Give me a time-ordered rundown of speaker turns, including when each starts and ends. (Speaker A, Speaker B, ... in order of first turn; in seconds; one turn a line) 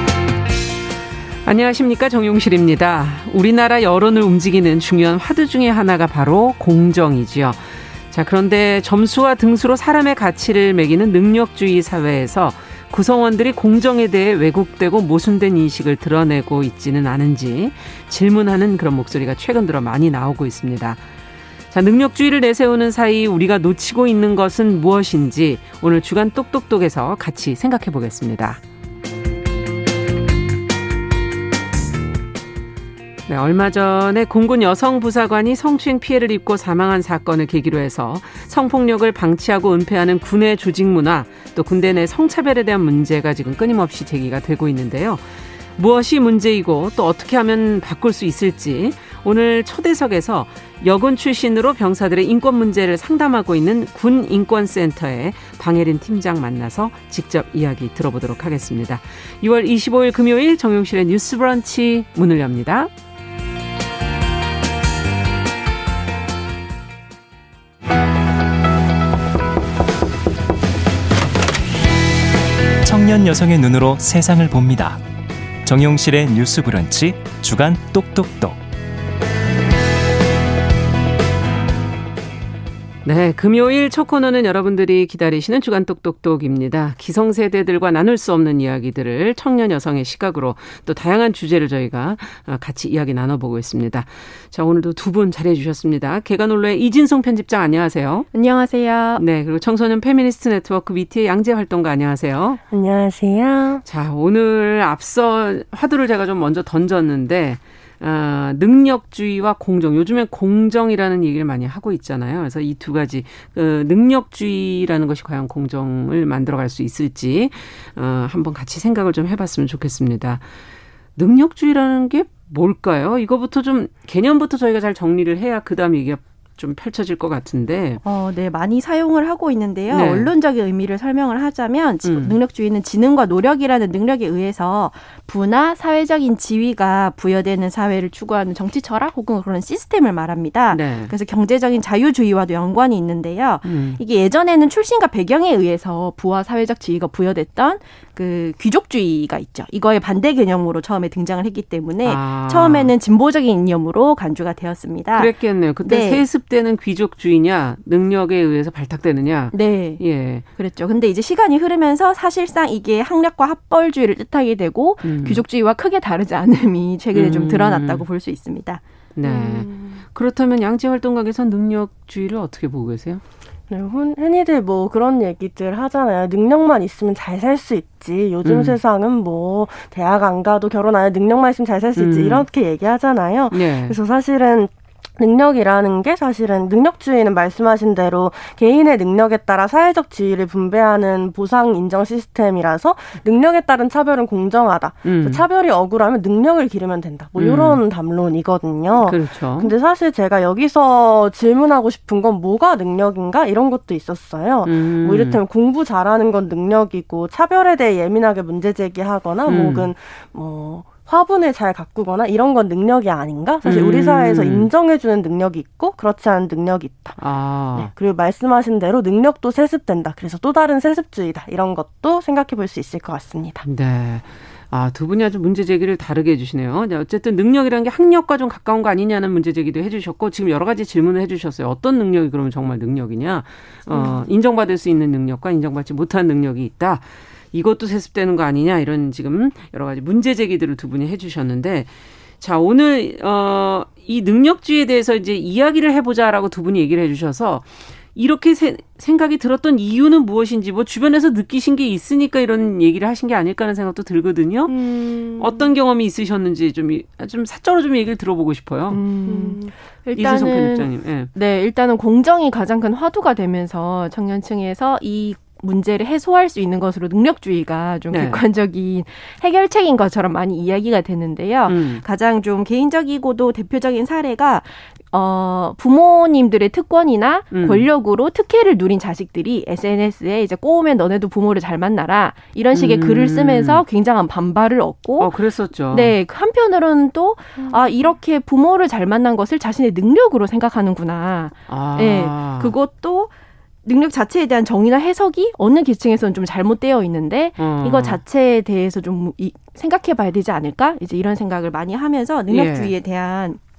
Speaker A: 1.4-21.1
Speaker A: 21.7-28.6
Speaker A: 33.3-45.2
Speaker A: 45.8-62.9
Speaker B: 72.8-75.0
Speaker B: 75.6-78.6
Speaker A: 83.0-98.3
Speaker C: 98.3-99.2
Speaker A: 99.2-102.6
Speaker D: 102.7-103.8
Speaker A: 103.8-120.4
Speaker A: 121.2-128.0
Speaker C: 128.0-155.3
Speaker A: 129.9-130.3
Speaker A: 132.0-132.4
Speaker A: 140.7-141.1
Speaker A: 143.6-144.0
Speaker A: 152.0-152.9
Speaker A: 155.1-160.4
Speaker C: 155.8-156.2
Speaker C: 159.5-160.0
Speaker C: 160.6-168.8
Speaker A: 165.0-165.4
Speaker A: 167.1-168.0
Speaker A: 169.2-173.2
Speaker D: 169.2-170.0
Speaker D: 173.7-217.2
Speaker A: 178.4-178.8
Speaker A: 182.0-182.4
Speaker A: 183.5-184.0
Speaker A: 195.0-195.4
Speaker A: 197.4-197.8
Speaker A: 199.0-199.7
Speaker A: 204.6-205.4
Speaker A: 209.4-209.9
Speaker A: 213.6-214.7
Speaker A: 217.2-217.9
Speaker D: 217.7-223.6
Speaker A: 223.6-259.0
Speaker D: 233.9-234.2
Speaker D: 254.7-255.7
Speaker C: 258.9-285.3
Speaker D: 259.3-259.7
Speaker A: 260.1-261.3
Speaker A: 268.1-268.4
Speaker A: 271.7-272.0
Speaker A: 277.5-277.9
Speaker A: 282.7-283.8
Speaker A: 285.2-286.1
Speaker C: 285.9-293.3
Speaker A: 291.7-292.7
Speaker C: 293.8-303.6
Speaker A: 297.6-298.2
Speaker A: 302.5-302.9